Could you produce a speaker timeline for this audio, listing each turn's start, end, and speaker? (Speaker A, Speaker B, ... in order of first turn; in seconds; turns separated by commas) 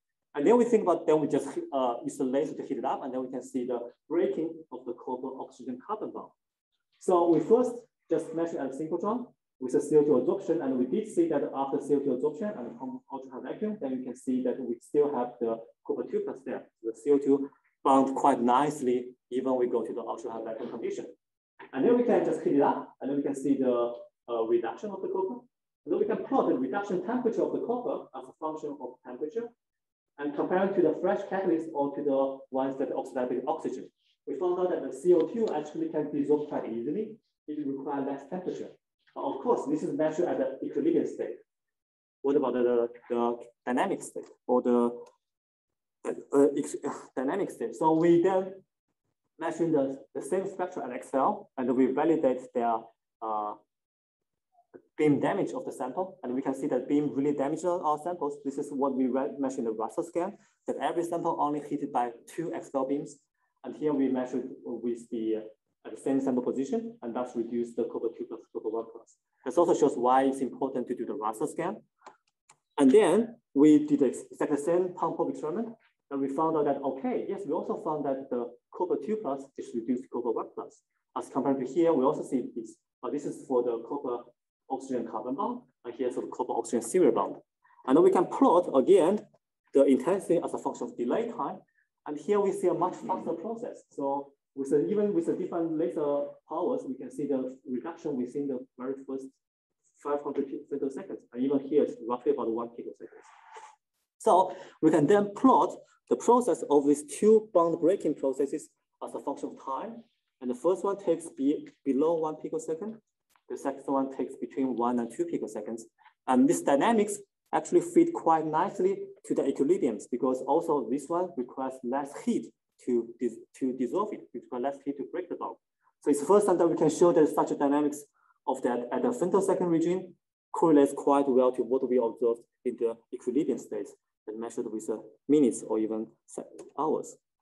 Speaker A: 0.3-6.3, Speaker A: 7.0-21.1, Speaker A: 21.7-29.5, Speaker A: 30.2-41.4, Speaker A: 42.2-45.1, Speaker A: 46.0-48.6, Speaker A: 49.4-53.6, Speaker A: 55.0-71.8, Speaker A: 72.8-99.3, Speaker A: 100.0-103.3, Speaker A: 104.2-137.2